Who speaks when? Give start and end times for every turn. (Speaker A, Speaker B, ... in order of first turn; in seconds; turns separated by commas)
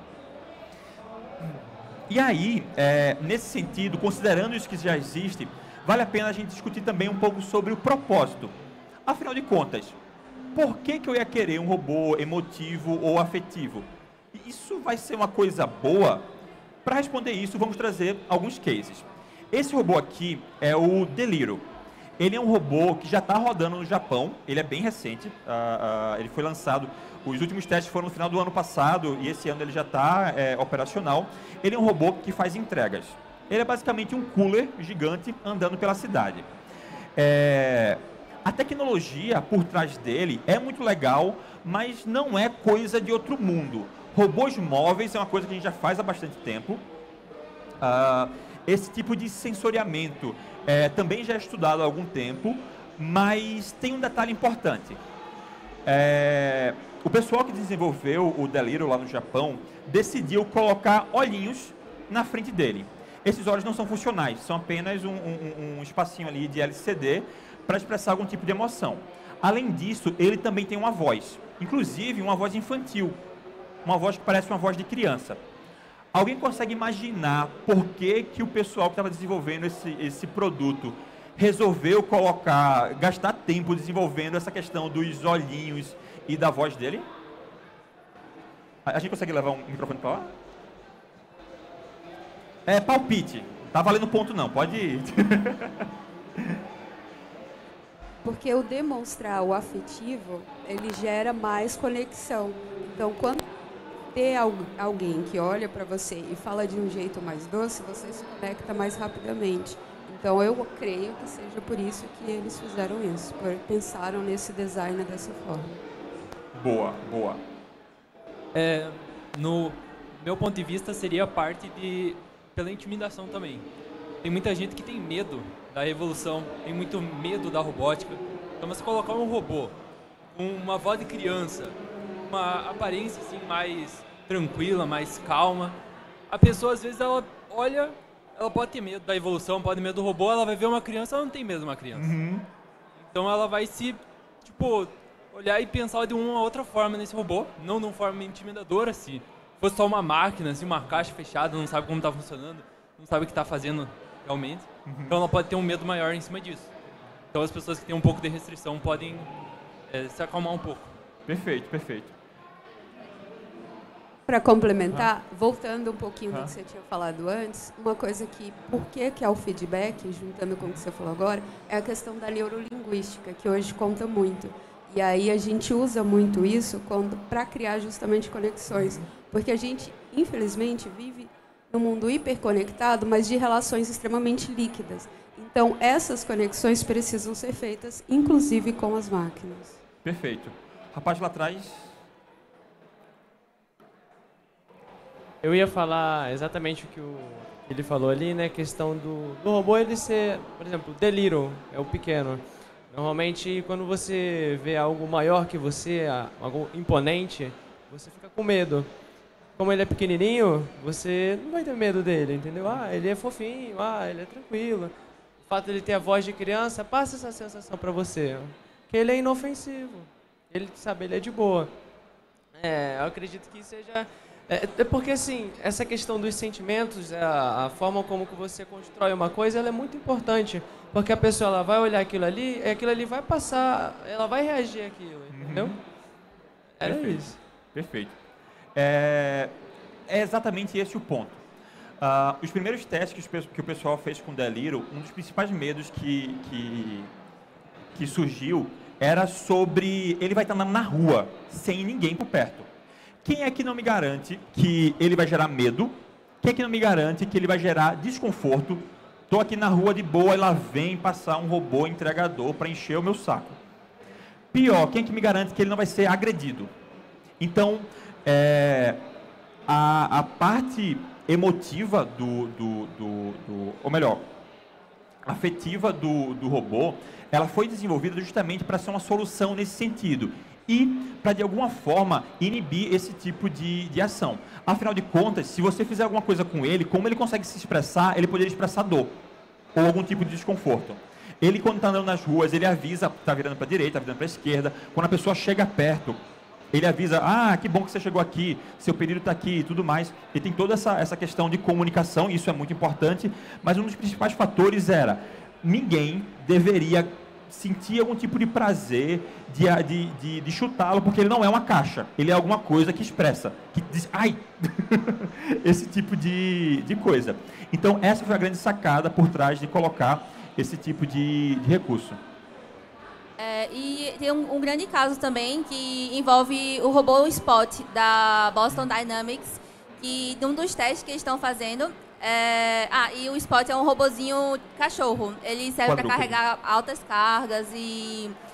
Speaker A: 2.1-8.5, Speaker A: 9.1-9.9, Speaker A: 10.5-16.3, Speaker A: 16.8-21.7, Speaker A: 22.2-36.5, Speaker A: 37.1-46.8, Speaker A: 47.8-55.0, Speaker A: 55.9-73.2, Speaker A: 73.8-75.4, Speaker A: 76.1-87.1, Speaker A: 88.8-90.3, Speaker A: 92.7-95.9, Speaker B: 98.2-103.4, Speaker B: 104.1-115.8, Speaker A: 116.5-117.4, Speaker C: 118.5-123.7, Speaker C: 124.2-129.8, Speaker C: 130.3-131.8, Speaker C: 132.3-142.1, Speaker A: 141.9-142.5, Speaker C: 143.0-156.7, Speaker A: 154.8-155.2, Speaker C: 157.3-159.3, Speaker C: 159.9-160.9, Speaker A: 161.3-162.1, Speaker B: 164.3-189.8, Speaker A: 178.7-179.0, Speaker A: 190.0-191.9, Speaker D: 195.4-208.9, Speaker D: 209.6-214.9, Speaker D: 215.4-221.8, Speaker D: 222.5-235.8, Speaker A: 235.3-235.8, Speaker D: 236.8-237.4, Speaker A: 236.8-238.1, Speaker A: 238.8-239.5, Speaker A: 240.1-241.4, Speaker A: 242.0-247.1, Speaker A: 247.9-252.7, Speaker A: 253.2-263.6, Speaker A: 264.5-266.7, Speaker A: 267.4-269.0, Speaker A: 269.7-274.2, Speaker A: 275.2-289.1, Speaker A: 289.7-296.2, Speaker A: 296.7-322.2, Speaker E: 323.4-338.3, Speaker A: 335.8-336.4